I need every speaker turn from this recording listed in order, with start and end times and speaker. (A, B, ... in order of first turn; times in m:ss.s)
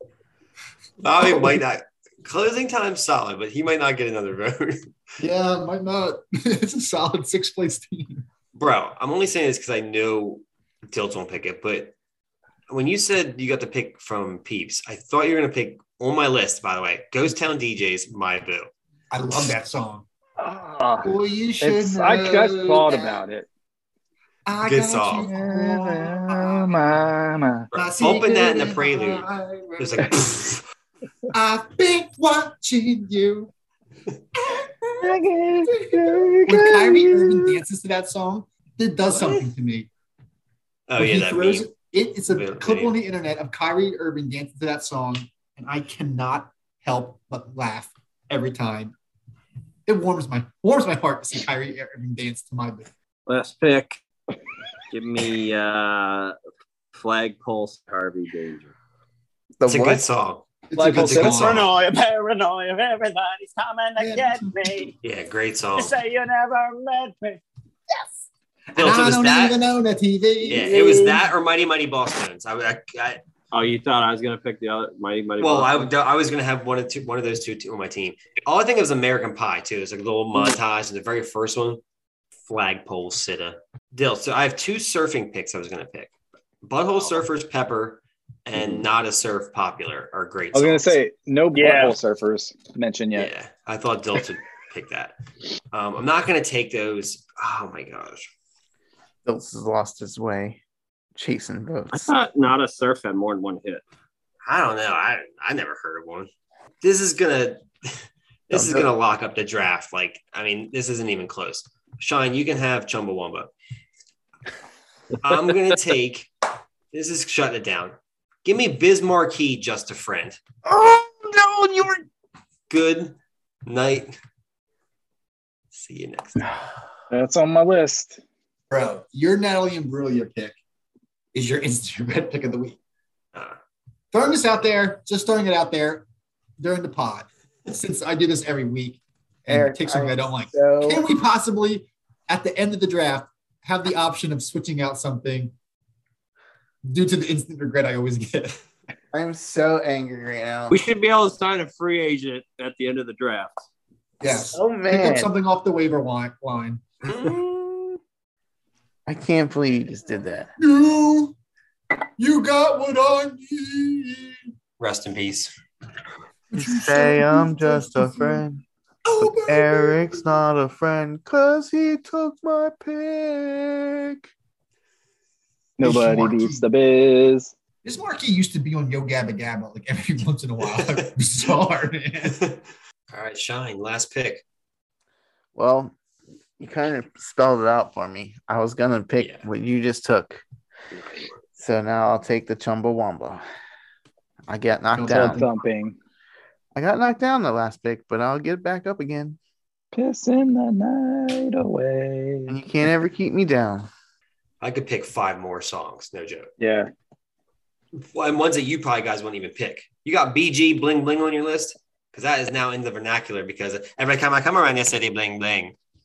0:01.0-0:04.8 A
0:05.2-0:08.2 B
0:08.5-0:12.0 A
0:12.7-0:18.7 A
0:19.1-0:20.0 B
0:20.4-0:23.5 C
0:21.0-0:23.2 B
0:24.4-0:26.8 B
0:24.6-0:25.3 A
0:25.2-0:27.7 C
0:27.7-0:29.3 A
0:27.7-0:30.2 B
0:29.8-0:30.6 A
0:31.3-0:33.5 B
0:35.0-0:37.6 C
0:35.7-0:39.9 B
0:40.9-0:41.7 A
0:41.0-0:48.9 B
0:42.3-0:43.0 A
0:49.9-0:52.9 B
0:53.3-0:54.0 D
0:54.9-0:56.4 D
0:56.9-0:58.7 D
0:59.6-1:00.0 E
0:59.6-1:01.7 A
1:00.7-1:01.7 B
1:00.7-1:01.5 C
1:01.2-1:05.0 F
1:04.0-1:04.5 B
1:05.0-1:05.9 A
1:05.8-1:08.1 F
1:08.7-1:10.7 B
1:08.8-1:09.6 A
1:10.5-1:13.2 A
1:10.5-1:11.2 F
1:13.5-1:15.9 D
1:15.4-1:21.8 A
1:22.5-1:26.1 A
1:26.6-1:31.0 A
1:30.5-1:33.3 C
1:31.5-1:32.0 F
1:33.2-1:35.1 A
1:35.7-1:38.3 A
1:39.2-1:40.6 E
1:41.1-1:42.1 E
1:41.9-1:43.8 D
1:44.4-1:46.3 A
1:46.8-1:53.5 A
1:48.5-1:48.8 E
1:55.2-1:56.3 A
1:56.9-2:00.4 A
2:00.7-2:01.6 B
2:02.7-2:04.1 A
2:05.7-2:06.6 A
2:07.1-2:08.2 C
2:08.7-2:10.6 B
2:11.3-2:12.8 B
2:14.1-2:16.1 B
2:16.6-2:25.5 B
2:19.5-2:21.0 E
2:26.8-2:28.6 B
2:29.1-2:30.8 E
2:30.7-2:33.6 D
2:34.2-2:37.0 B
2:34.2-2:35.3 E
2:37.0-2:37.4 A
2:39.0-2:40.5 E
2:40.6-2:41.4 B
2:42.2-2:44.5 B
2:44.8-2:45.5 A
2:46.5-2:48.4 B
2:46.5-2:48.6 E
2:49.0-2:50.2 B
2:49.2-2:54.3 E
2:55.8-2:57.5 C
2:55.8-2:56.6 B
2:57.8-3:02.4 B
3:00.7-3:01.1 A
3:02.2-3:04.4 A
3:05.5-3:05.9 E
3:06.6-3:10.4 E
3:09.2-3:09.5 A
3:11.6-3:13.4 E
3:14.5-3:15.4 E
3:14.9-3:15.5 B
3:15.1-3:16.0 C
3:16.7-3:19.4 E
3:19.9-3:22.6 C
3:22.5-3:23.9 E
3:24.6-3:26.5 A
3:26.6-3:26.9 C
3:28.0-3:35.7 A